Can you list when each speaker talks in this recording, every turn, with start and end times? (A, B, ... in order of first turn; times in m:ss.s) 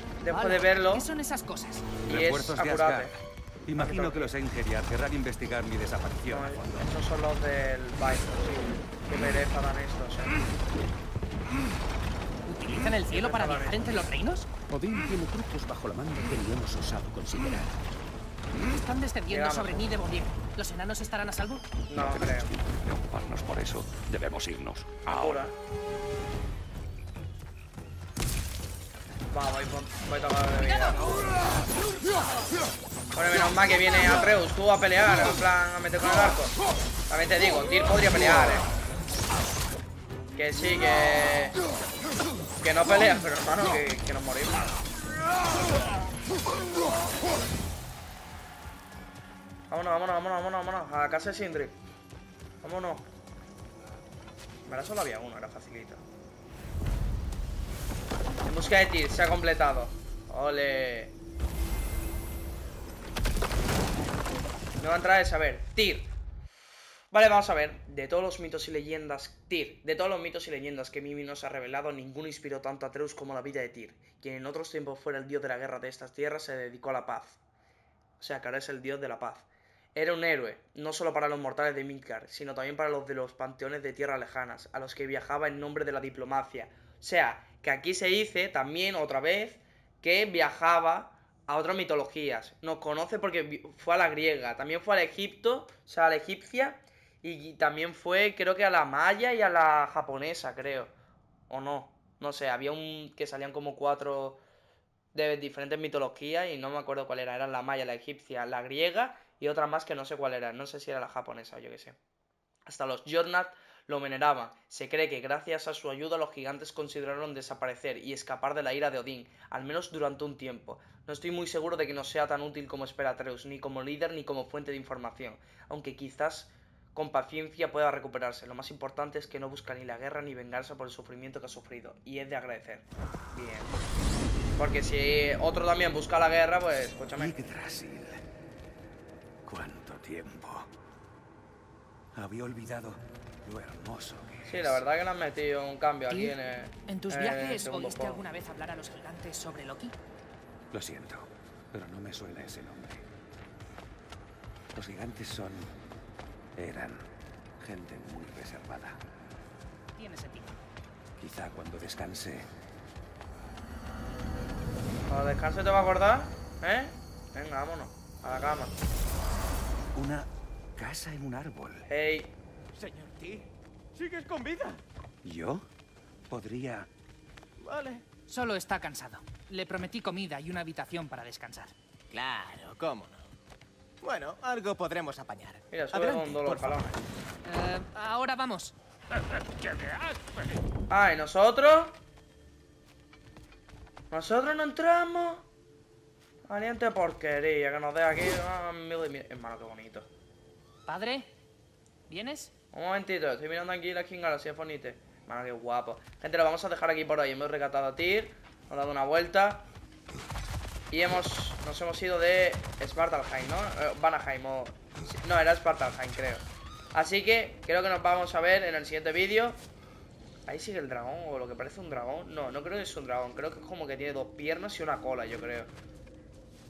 0:00.2-0:01.1 A
0:00.3-0:02.0 B
0:02.0-0:03.1 A
0:02.0-0:06.9 C
0:03.8-0:04.3 A
0:06.3-0:10.4 A
0:12.4-0:14.5 B
0:13.1-0:13.8 A
0:14.7-0:17.8 D
0:18.6-0:21.8 B
0:19.3-0:19.9 A
0:21.9-0:22.5 A
0:21.9-0:25.4 E
0:25.1-0:25.5 A
0:29.3-0:31.2 A
0:30.5-0:31.5 B
0:33.1-0:36.6 A
0:37.1-0:38.7 A
0:40.3-0:41.6 A
0:42.6-0:44.8 A
0:49.7-0:51.7 A
0:52.6-0:53.0 A
0:54.6-0:56.0 A
0:58.4-1:01.1 A
1:04.8-1:06.1 A
1:07.1-1:17.4 A
1:18.2-1:40.9 A
1:41.5-1:44.4 A
1:45.1-1:52.0 A
1:52.6-2:13.8 A
2:14.6-2:17.3 A
2:17.2-2:18.2 C
2:19.4-2:20.7 C
2:22.1-2:24.8 C
2:24.4-2:28.2 A
2:26.1-2:29.9 B
2:30.7-2:33.0 C
2:34.7-2:35.7 C
2:36.6-2:37.1 C
2:37.6-2:39.0 C
2:40.0-2:40.6 B
2:41.2-2:42.5 C
2:45.1-2:48.7 A
2:49.9-2:51.8 C
2:51.9-2:52.4 A
2:52.7-2:54.8 F
2:55.2-2:55.6 C
2:56.3-2:56.9 C
2:57.6-2:58.0 F
2:58.3-3:01.7 B
3:02.1-3:03.2 F
3:04.0-3:06.8 F
3:05.7-3:07.0 A
3:07.4-3:08.7 B
3:09.7-3:10.2 F
3:10.9-3:12.0 A
3:14.1-3:15.4 A
3:16.5-3:20.1 A
3:20.9-3:21.3 B
3:22.1-3:22.5 B
3:22.7-3:29.7 A
3:30.9-3:39.6 A
3:40.5-3:45.7 A